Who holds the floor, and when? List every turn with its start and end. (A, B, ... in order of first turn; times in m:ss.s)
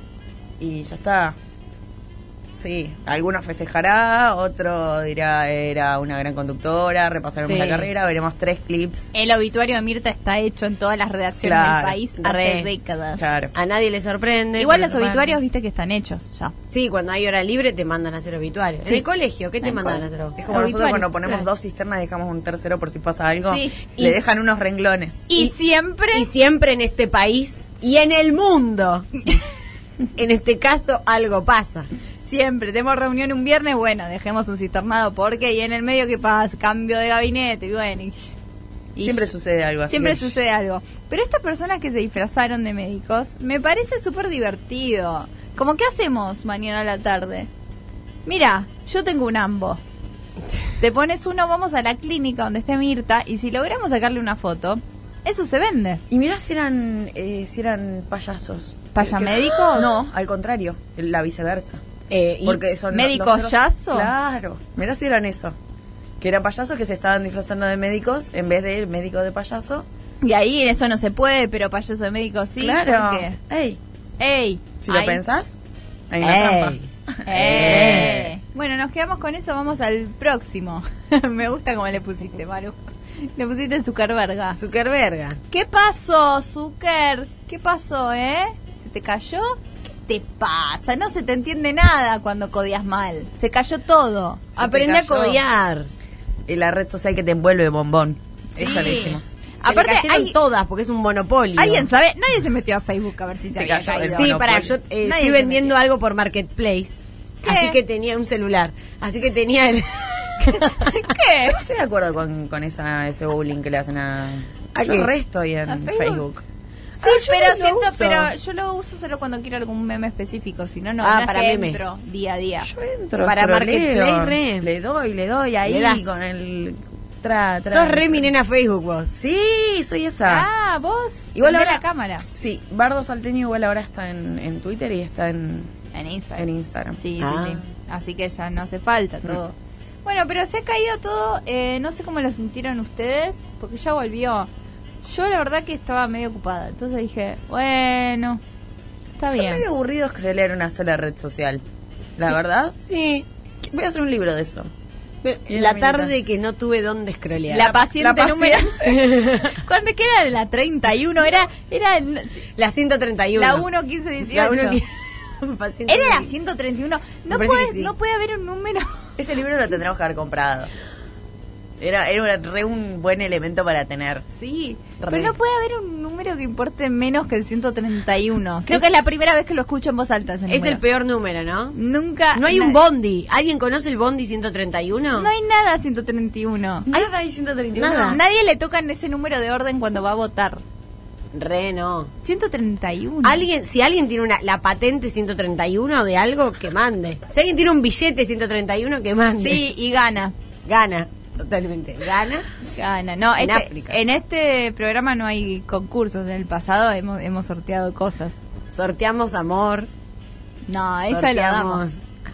0:00.6-0:01.4 A
0:02.6-0:09.1 A
0:07.4-0:07.9 B
0:09.1-0:13.3 C
0:11.4-0:12.0 A
0:12.2-0:12.7 B
0:13.2-0:13.5 A
0:13.6-0:14.9 B
0:14.6-0:16.5 C
0:14.8-0:15.4 A
0:16.7-0:20.4 B
0:19.6-0:21.4 C
0:20.4-0:25.2 A
0:23.5-0:23.9 C
0:24.0-0:24.3 B
0:25.3-0:26.3 C
0:26.1-0:29.1 B
0:30.2-0:31.9 B
0:32.3-0:38.4 C
0:39.0-0:39.3 C
0:39.0-0:40.4 A
0:39.9-0:47.5 C
0:48.3-0:49.8 C
0:50.8-0:56.0 C
0:56.1-1:01.8 A
0:59.0-0:59.9 C
1:02.1-1:02.8 B
1:02.4-1:05.6 A
1:02.9-1:04.1 C
1:06.2-1:09.9 A
1:10.2-1:13.4 C
1:12.6-1:13.8 A
1:14.2-1:15.2 C
1:14.8-1:15.6 A
1:16.1-1:16.8 A
1:16.2-1:18.2 B
1:17.3-1:22.8 C
1:17.3-1:18.3 A
1:23.4-1:24.6 C
1:24.6-1:25.4 B
1:25.5-1:34.6 C
1:34.6-1:35.4 A
1:34.6-1:35.9 B
1:36.5-1:39.2 A
1:38.6-1:40.3 C
1:39.6-1:41.9 B
1:41.6-1:44.5 C
1:43.6-1:44.8 A
1:43.9-1:50.9 B
1:45.0-1:45.7 C
1:47.4-1:47.8 C
1:50.6-1:51.6 C
1:51.4-1:56.4 A
1:54.8-1:55.1 B
1:55.7-1:56.2 C
1:57.0-2:02.7 C
1:57.0-1:58.3 B
2:01.0-2:01.9 B
2:02.6-2:08.3 A
2:03.2-2:04.7 B
2:05.7-2:06.1 B
2:07.7-2:09.1 B
2:09.1-2:10.5 A
2:10.3-2:12.2 C
2:11.4-2:15.7 A
2:15.9-2:16.5 C
2:16.4-2:17.0 A
2:17.0-2:24.5 C
2:17.2-2:17.6 B
2:25.0-2:28.4 C
2:29.2-2:29.6 C
2:29.3-2:31.6 A
2:32.2-2:32.8 A
2:32.8-2:33.2 B
2:33.6-2:34.7 A
2:35.2-2:37.7 B
2:35.5-2:36.1 A
2:37.5-2:38.9 C
2:37.6-2:39.0 A
2:38.8-2:39.6 B
2:39.5-2:42.4 C
2:42.6-2:43.7 B
2:43.4-2:44.8 C
2:44.3-2:44.9 B
2:45.4-2:46.3 B
2:45.9-2:48.9 C
2:47.3-2:47.9 B
2:49.2-2:50.7 A
2:51.8-2:54.2 A
2:54.4-3:00.8 C
2:55.0-2:55.3 B
3:00.5-3:01.8 B
3:01.8-3:02.8 C
3:02.4-3:05.3 B
3:05.2-3:07.0 C
3:06.9-3:08.2 A
3:07.8-3:08.2 B
3:08.1-3:10.6 C
3:11.3-3:12.1 B
3:12.2-3:13.5 C
3:13.2-3:19.6 B
3:19.4-3:20.3 C
3:20.7-3:22.5 B
3:22.8-3:28.4 C
3:23.4-3:24.0 B
3:28.7-3:29.9 B
3:30.7-3:31.9 C
3:31.0-3:31.9 B